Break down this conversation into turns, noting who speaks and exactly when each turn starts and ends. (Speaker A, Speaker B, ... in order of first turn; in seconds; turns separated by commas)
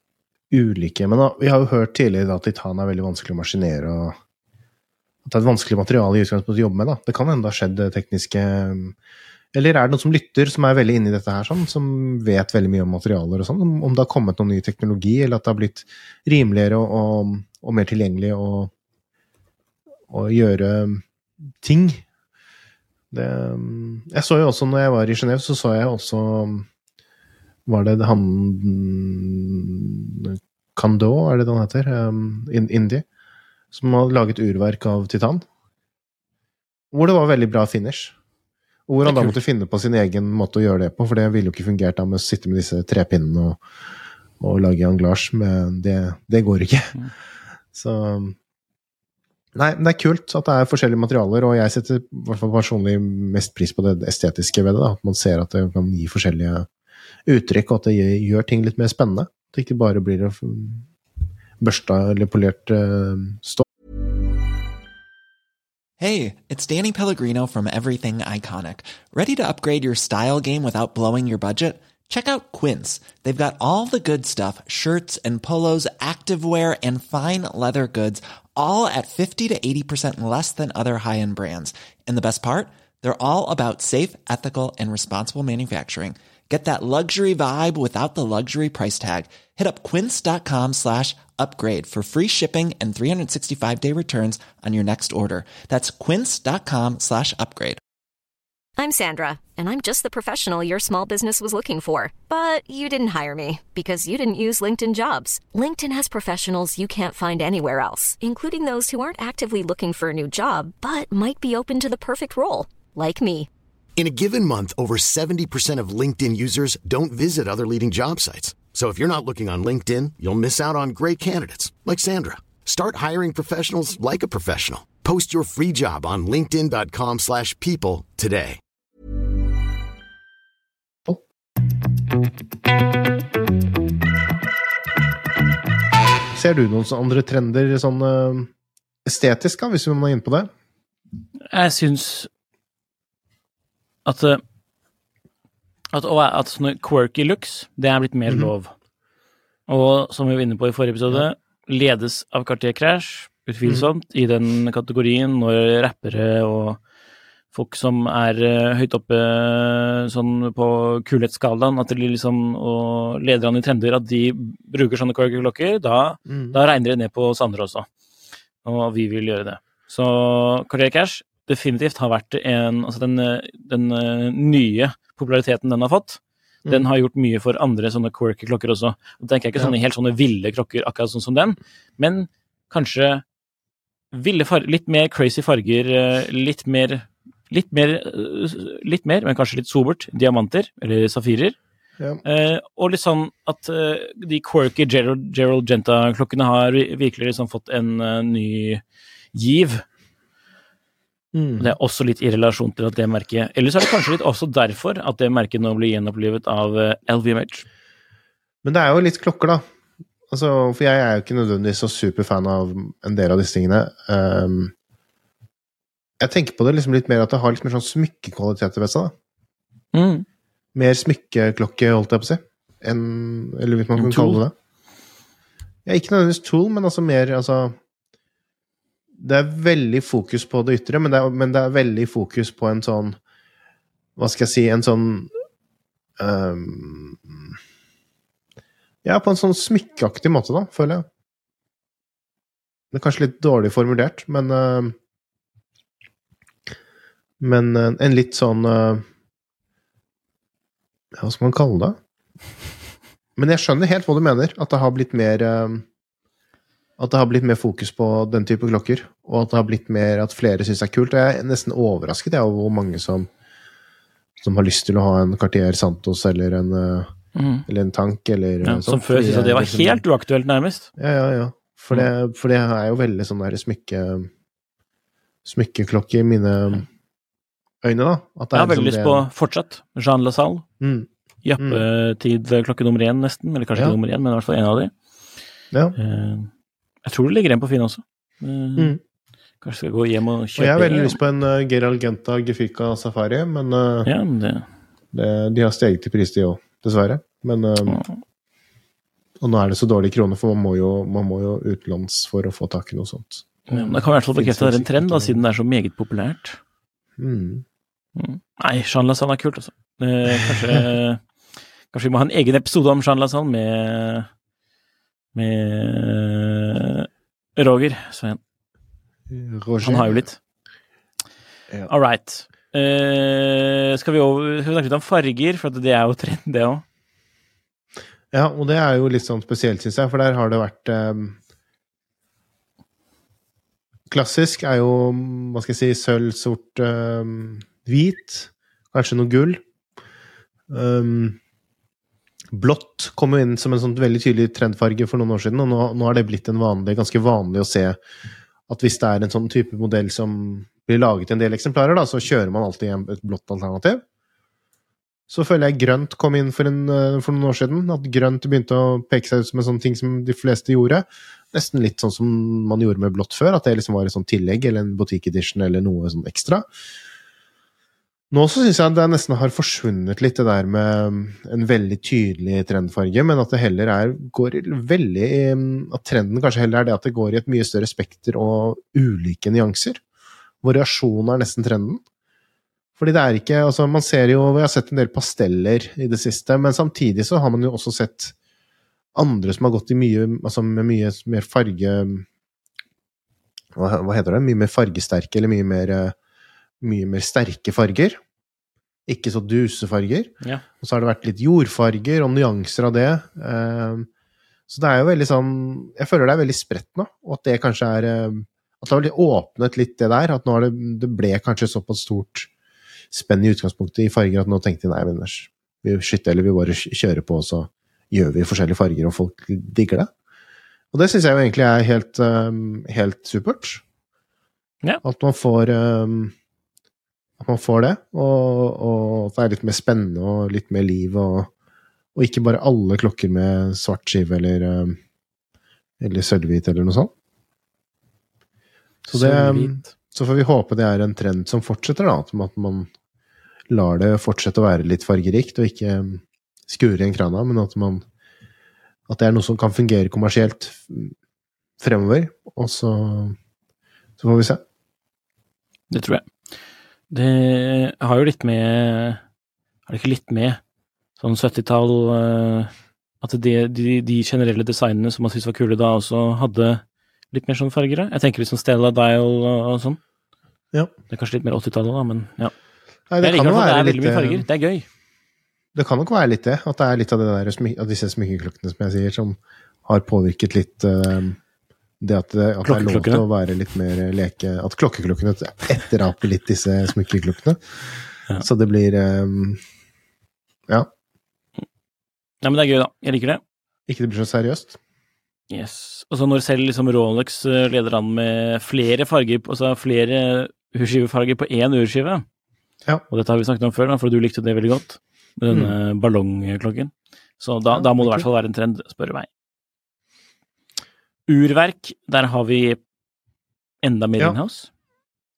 Speaker A: 0.5-4.2, Speaker A: 5.2-9.0, Speaker A: 9.5-18.7, Speaker A: 20.1-21.0, Speaker A: 21.6-22.0, Speaker A: 23.1-26.7, Speaker A: 27.7-33.0, Speaker A: 33.7-35.5, Speaker A: 36.9-38.1, Speaker A: 38.9-43.6, Speaker B: 39.0-39.4, Speaker A: 44.4-47.0, Speaker A: 47.7-48.4, Speaker A: 49.5-56.7, Speaker A: 57.3-60.9, Speaker A: 61.6-63.6, Speaker C: 66.0-97.8, Speaker D: 98.8-113.5, Speaker E: 114.0-128.6, Speaker A: 136.3-138.5, Speaker A: 139.1-140.5, Speaker B: 141.5-142.3, Speaker B: 144.1-144.4, Speaker B: 145.9-148.7, Speaker B: 149.7-156.8, Speaker B: 157.5-167.9, Speaker A: 166.3-166.6, Speaker B: 168.6-183.2, Speaker B: 184.1-191.6, Speaker B: 192.2-198.8, Speaker B: 199.3-199.8, Speaker A: 201.3-201.7, Speaker B: 201.6-207.7, Speaker A: 208.6-209.7, Speaker A: 210.3-214.7, Speaker A: 216.2-219.1, Speaker B: 219.9-220.2, Speaker A: 220.8-224.5, Speaker B: 224.0-224.4, Speaker A: 225.9-227.8, Speaker A: 229.2-233.2, Speaker A: 234.2-235.3, Speaker A: 236.2-237.5, Speaker A: 239.0-241.1, Speaker A: 242.9-244.9, Speaker A: 247.4-249.1, Speaker A: 251.2-252.0, Speaker A: 253.4-255.8, Speaker A: 257.0-263.3, Speaker A: 264.4-267.1, Speaker B: 267.4-267.7, Speaker A: 267.7-270.0, Speaker B: 268.6-270.9, Speaker A: 271.0-274.3, Speaker A: 275.4-276.9, Speaker A: 277.8-279.3, Speaker B: 278.5-280.6, Speaker A: 280.8-281.8, Speaker B: 281.4-284.9, Speaker A: 285.7-286.0, Speaker B: 286.0-286.5, Speaker B: 287.1-288.9, Speaker B: 289.6-291.2, Speaker A: 290.6-294.1, Speaker B: 294.1-294.7, Speaker A: 295.1-298.0, Speaker B: 297.9-298.2, Speaker A: 299.4-305.4, Speaker B: 303.7-306.6, Speaker A: 307.2-307.6, Speaker B: 308.2-311.2, Speaker A: 310.4-310.8, Speaker B: 311.9-314.3, Speaker B: 315.4-318.4, Speaker A: 319.3-320.2, Speaker B: 319.8-320.4, Speaker B: 321.9-326.8, Speaker A: 328.3-331.4, Speaker A: 334.1-339.6, Speaker A: 340.7-341.4, Speaker A: 342.5-348.0, Speaker A: 348.7-354.0, Speaker A: 355.3-366.7, Speaker A: 368.3-380.0, Speaker A: 380.6-382.0, Speaker A: 383.0-388.3, Speaker A: 389.1-392.3, Speaker A: 393.8-396.1, Speaker A: 396.8-398.2, Speaker A: 399.1-404.1, Speaker A: 404.7-412.5, Speaker A: 413.1-420.1, Speaker A: 420.9-423.8, Speaker A: 425.0-426.4, Speaker A: 427.4-431.5, Speaker A: 432.1-435.0, Speaker A: 436.0-437.1, Speaker A: 439.1-442.9, Speaker B: 439.1-439.9, Speaker A: 443.7-448.1, Speaker A: 449.1-451.1, Speaker A: 451.8-453.4, Speaker A: 454.2-454.6, Speaker B: 455.9-456.3, Speaker B: 457.1-459.2, Speaker B: 459.9-460.6, Speaker B: 461.2-470.0, Speaker B: 471.1-472.5, Speaker A: 473.1-474.5, Speaker B: 473.2-474.9, Speaker A: 475.8-481.4, Speaker A: 482.0-487.6, Speaker B: 482.6-483.2, Speaker A: 488.4-489.6, Speaker B: 492.4-493.4, Speaker A: 493.9-494.8, Speaker B: 495.5-502.2, Speaker B: 503.1-509.3, Speaker A: 507.7-508.3, Speaker B: 511.3-512.8, Speaker B: 513.8-514.7